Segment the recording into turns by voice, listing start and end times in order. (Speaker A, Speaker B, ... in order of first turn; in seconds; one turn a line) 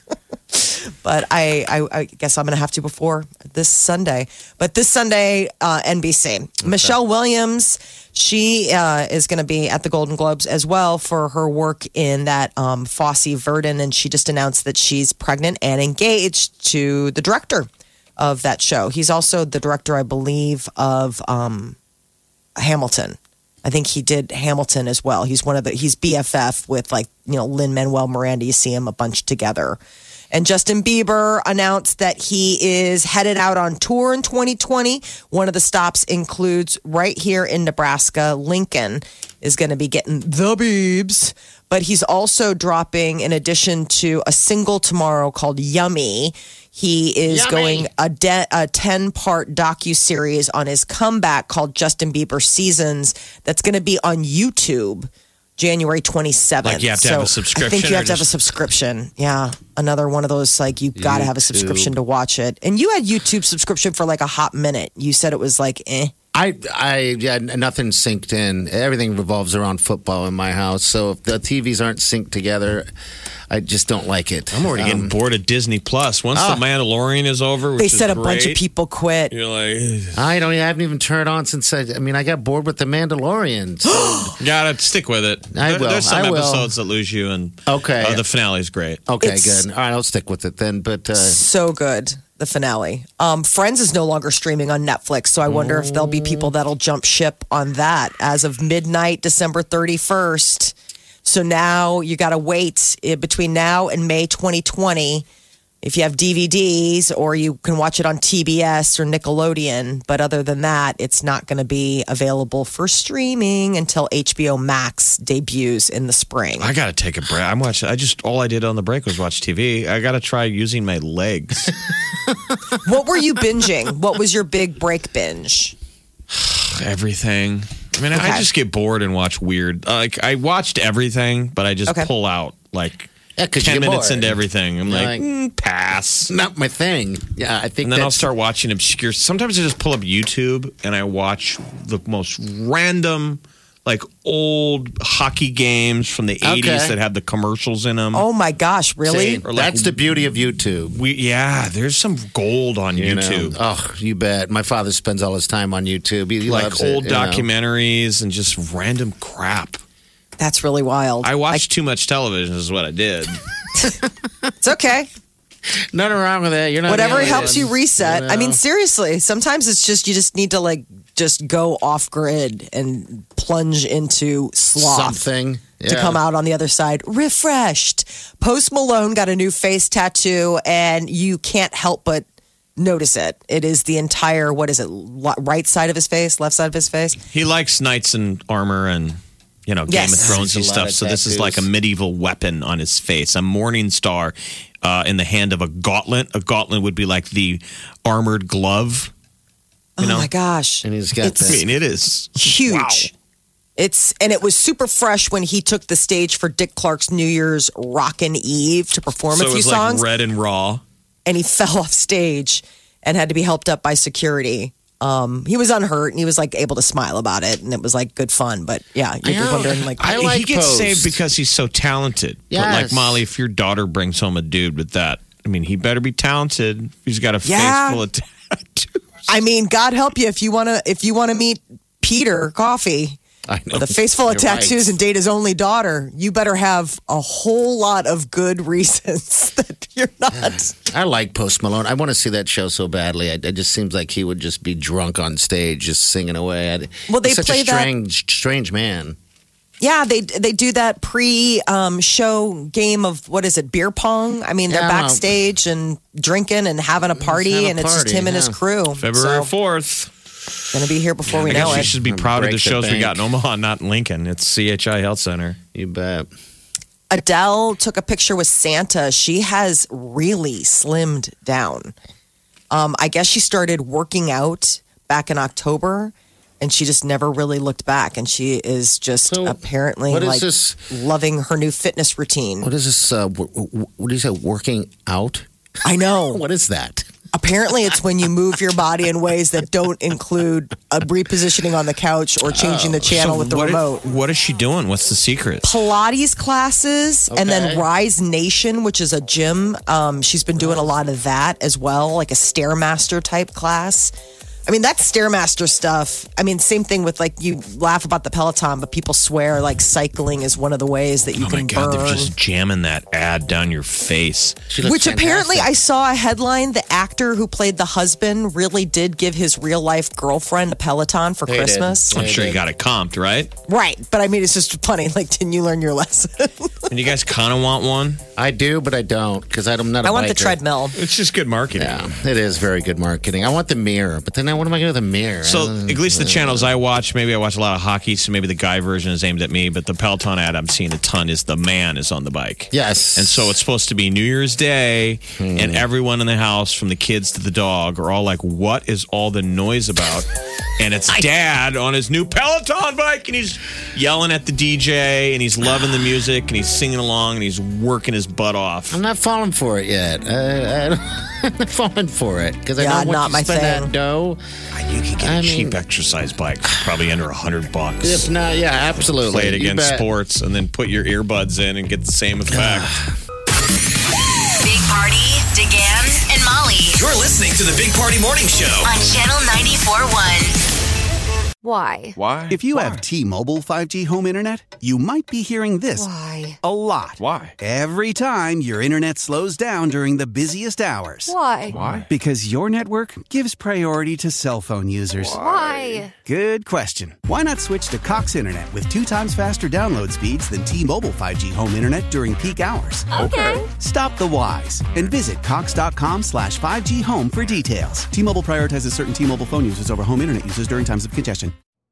Speaker A: 0.5-21.8
Speaker B: 6.6-6.9
Speaker A: 22.6-29.8
Speaker A: 30.3-66.1
Speaker B: 47.3-47.9
Speaker C: 56.6-58.3
Speaker B: 61.0-62.0
Speaker B: 66.3-72.9
Speaker B: 73.5-75.1
Speaker C: 74.5-78.6
Speaker B: 76.3-76.7
Speaker A: 77.8-79.3
Speaker C: 79.3-80.2
Speaker B: 80.1-84.4
Speaker A: 83.8-84.3
Speaker C: 84.4-89.0
Speaker B: 85.5-86.7
Speaker B: 87.7-88.2
Speaker B: 89.1-91.4
Speaker A: 89.2-89.7
Speaker A: 91.2-100.7
Speaker B: 95.5-96.5
Speaker A: 101.2-105.2
Speaker A: 105.8-116.7
Speaker C: 116.6-121.7
Speaker A: 122.8-125.8
Speaker C: 126.3-136.3
Speaker A: 128.1-128.5
Speaker B: 133.4-135.2
Speaker B: 136.3-138.3
Speaker C: 137.8-148.2
Speaker B: 146.4-147.0
Speaker A: 148.1-149.4
Speaker B: 149.1-151.0
Speaker C: 149.4-149.9
Speaker C: 150.9-153.6
Speaker B: 152.9-157.5
Speaker C: 156.4-159.8
Speaker A: 160.4-161.7
Speaker C: 161.2-163.4
Speaker A: 164.6-165.1
Speaker B: 165.9-168.6
Speaker A: 166.9-175.2
Speaker C: 167.0-167.5
Speaker B: 174.8-176.2
Speaker A: 175.8-182.2
Speaker A: 182.8-187.2
Speaker C: 187.3-199.1
Speaker A: 189.9-190.3
Speaker B: 190.2-191.7
Speaker A: 200.0-201.6
Speaker C: 200.0-200.3
Speaker B: 200.8-201.7
Speaker C: 201.5-203.1
Speaker A: 202.4-203.1
Speaker A: 203.8-210.0
Speaker C: 209.3-210.8
Speaker A: 211.3-220.2
Speaker B: 219.2-221.2
Speaker C: 220.0-229.0
Speaker B: 222.5-223.2
Speaker A: 227.4-228.0
Speaker A: 229.3-233.2
Speaker B: 233.5-235.0
Speaker A: 233.7-240.7
Speaker B: 240.3-249.2
Speaker A: 247.1-247.9
Speaker A: 249.8-259.5
Speaker B: 254.7-255.3
Speaker B: 257.1-258.6
Speaker C: 258.9-260.1
Speaker A: 260.7-261.9
Speaker B: 261.3-263.2
Speaker C: 261.4-265.6
Speaker B: 265.7-266.3
Speaker A: 267.1-271.9
Speaker A: 272.7-282.7
Speaker B: 279.3-280.8
Speaker B: 282.6-285.5
Speaker A: 285.9-286.4
Speaker B: 286.3-287.1
Speaker A: 287.3-294.0
Speaker B: 292.5-293.2
Speaker C: 293.1-295.7
Speaker A: 295.6-304.1
Speaker B: 297.3-297.8
Speaker A: 304.7-312.3
Speaker C: 311.4-314.6
Speaker B: 314.7-315.7
Speaker A: 314.8-322.2
Speaker B: 321.5-322.6
Speaker C: 322.1-323.5
Speaker A: 323.7-326.7
Speaker C: 326.9-328.2
Speaker B: 328.4-330.6
Speaker A: 330.0-331.0
Speaker C: 330.9-332.1
Speaker B: 331.8-336.7
Speaker C: 335.4-350.3
Speaker B: 342.7-343.6
Speaker B: 345.4-345.9
Speaker C: 350.8-359.0
Speaker B: 358.9-364.4
Speaker A: 362.8-363.9
Speaker C: 364.7-368.3
Speaker B: 365.2-365.8
Speaker B: 368.0-370.1
Speaker C: 369.0-372.9
Speaker B: 372.5-373.1
Speaker D: 374.6-377.0
Speaker E: 376.9-378.9
Speaker D: 378.8-380.6
Speaker F: 381.6-382.2
Speaker G: 382.2-386.1
Speaker F: 386.0-386.6
Speaker G: 386.6-411.5
Speaker F: 391.3-391.8
Speaker F: 395.3-396.1
Speaker F: 403.1-403.7